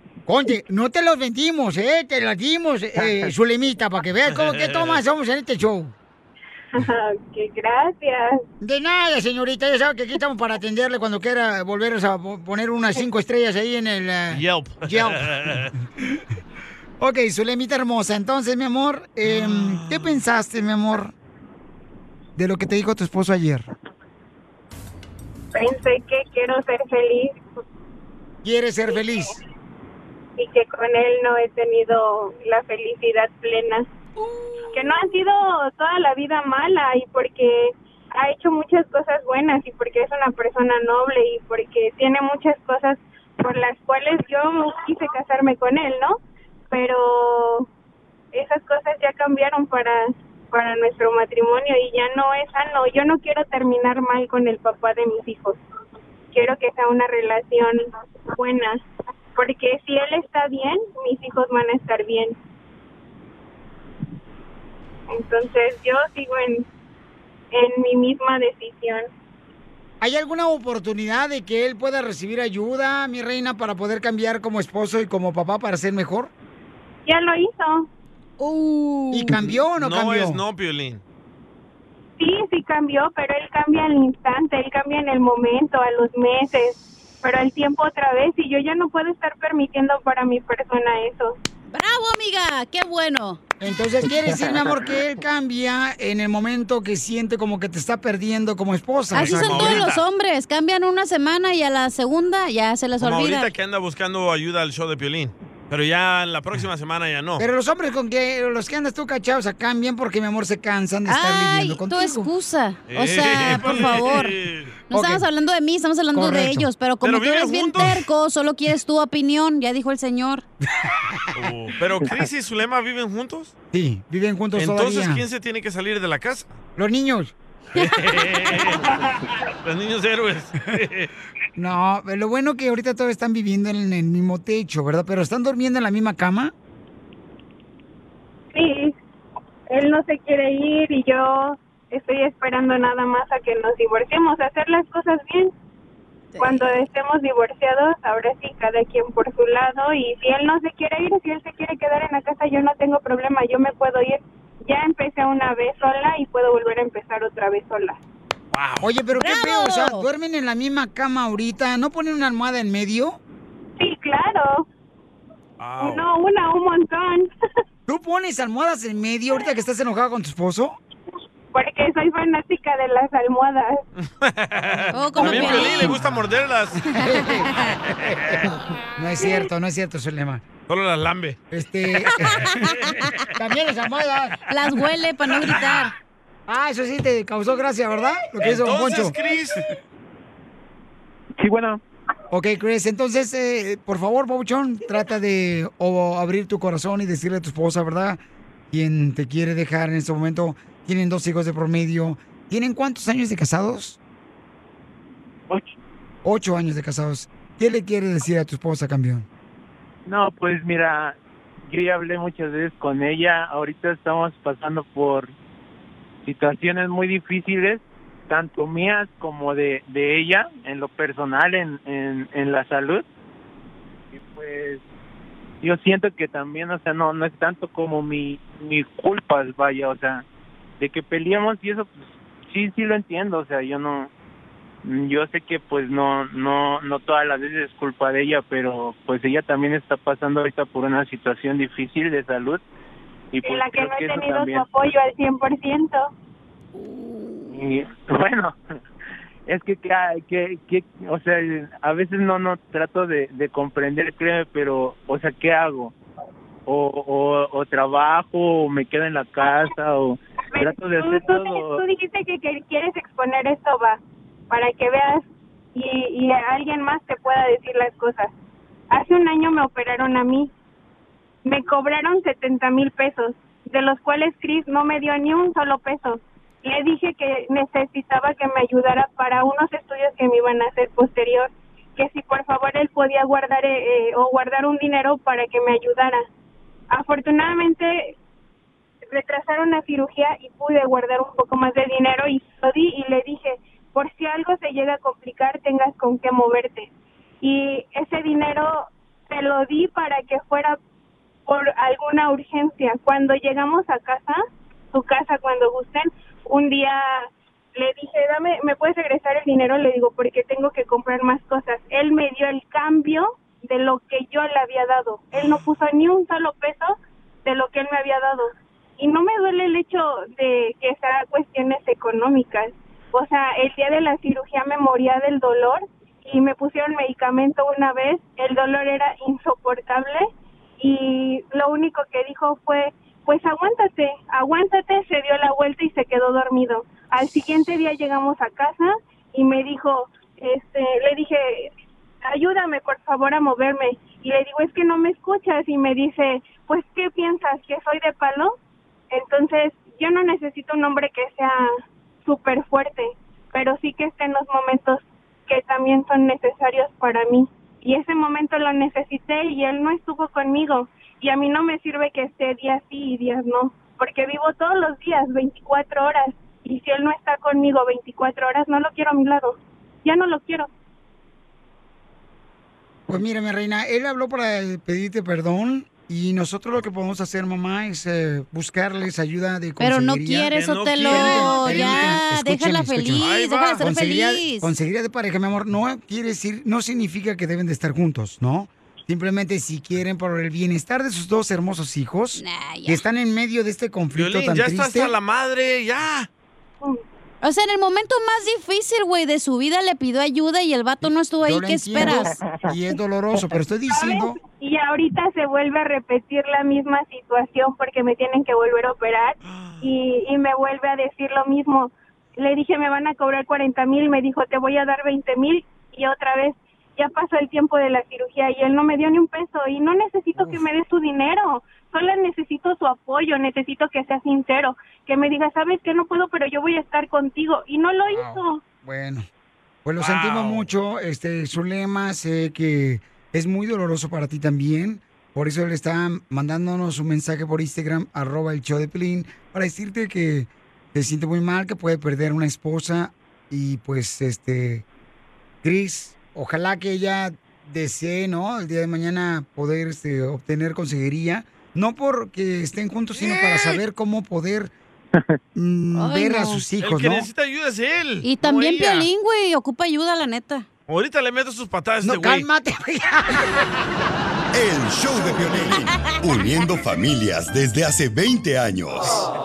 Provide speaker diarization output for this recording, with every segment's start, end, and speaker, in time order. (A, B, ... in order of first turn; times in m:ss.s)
0:00.3-0:05.9 A
0:04.3-0:05.0 B
0:06.7-0:08.4 C
0:08.6-0:15.5 A
0:14.3-0:15.7 B
0:17.0-0:21.1 A
0:19.2-0:20.2 B
0:22.4-0:23.7 A
0:25.5-0:27.4 C
0:28.4-0:29.4 A
0:30.4-0:33.8 C
0:34.7-0:46.2 C
0:46.7-0:47.7 C
0:48.3-0:55.6 C
0:56.3-0:58.8 C
0:59.4-1:02.3 C
1:05.1-1:06.6 C
1:07.5-1:09.1 C
1:10.0-1:16.3 A
1:17.0-1:17.9 C
1:18.4-1:19.4 D
1:19.1-1:20.4 A
1:19.4-1:21.0 B
1:22.2-1:31.4 C
1:31.7-1:33.4 D
1:33.6-1:39.8 A
1:39.1-1:40.0 B
1:39.1-1:43.5 D
1:43.0-1:47.4 B
1:47.4-1:52.3 A
1:51.1-1:54.3 D
1:52.9-1:54.7 B
1:54.9-2:00.4 D
1:54.9-1:55.2 A
1:56.1-1:56.7 A
1:57.0-1:58.1 B
2:00.8-2:01.3 A
2:01.3-2:03.5 B
2:03.7-2:05.2 A
2:04.5-2:06.6 B
2:06.8-2:07.3 A
2:07.7-2:09.0 B
2:07.8-2:08.5 D
2:09.6-2:11.1 B
2:11.6-2:16.5 A
2:18.5-2:18.9 C
2:19.7-2:25.5 C
2:26.3-2:26.7 D
2:26.4-2:38.0 C
2:38.5-2:38.9 B
2:38.8-2:43.2 A
2:39.1-2:40.0 D
2:43.8-2:44.6 C
2:45.6-2:46.0 B
2:45.8-2:47.3 C
2:47.9-2:50.8 A
2:51.5-2:53.8 C
2:54.0-2:56.8 B
2:54.9-2:56.0 D
2:55.2-2:56.0 A
2:56.9-2:57.5 A
2:56.9-2:57.7 D
2:58.0-2:58.5 B
2:58.1-2:58.4 A
2:58.9-3:00.4 A
3:00.7-3:01.4 B
3:01.5-3:02.8 A
3:02.2-3:02.9 B
3:03.3-3:04.4 A
3:04.5-3:05.9 D
3:06.5-3:09.2 A
3:08.4-3:09.6 B
3:11.4-3:11.8 E
3:12.3-3:18.2 A
3:18.7-3:24.0 A
3:26.2-3:29.3 A
3:30.1-3:31.1 E
3:31.7-3:35.3 E
3:36.2-3:43.0 E
3:44.1-3:44.8 E
3:45.6-3:50.2 E
3:50.8-3:51.9 E
3:52.5-3:54.1 E
3:54.8-4:02.6 E
4:03.3-4:04.7 E
4:03.4-4:06.1 C
4:06.7-4:07.7 D
4:07.5-4:08.5 E
4:09.5-4:15.9 E
4:16.7-4:21.8 E
4:20.5-4:28.3 C
4:28.9-4:30.5 C
4:31.4-4:46.2 C
4:46.9-4:48.1 C
4:49.1-4:56.9 C
4:57.4-5:00.8 C
5:01.5-5:04.4 C
5:04.9-5:30.3 C
5:15.3-5:15.6 B
5:30.8-5:41.7 C
5:42.2-5:48.6 C
5:49.1-5:51.7 C
5:52.2-6:10.7 C
6:13.1-6:23.3 A
6:19.8-6:24.7 D
6:20.5-6:22.2 B
6:23.2-6:23.8 B
6:23.8-6:35.1 A
6:32.4-6:33.0 D
6:34.1-6:36.3 B
6:37.4-6:42.4 D
6:41.4-6:44.4 A
6:43.9-7:08.6 C
6:49.5-6:49.9 B
7:00.4-7:00.6 A
7:08.1-7:09.2 A
7:09.8-7:24.8 A
7:10.0-7:10.7 B
7:25.6-7:34.7 A
7:33.2-7:33.8 B
7:35.5-7:37.3 A
7:36.0-7:36.6 D
7:36.8-7:39.1 B
7:38.2-7:40.6 D
7:40.9-7:42.5 B
7:42.0-7:43.6 A
7:44.5-7:49.2 F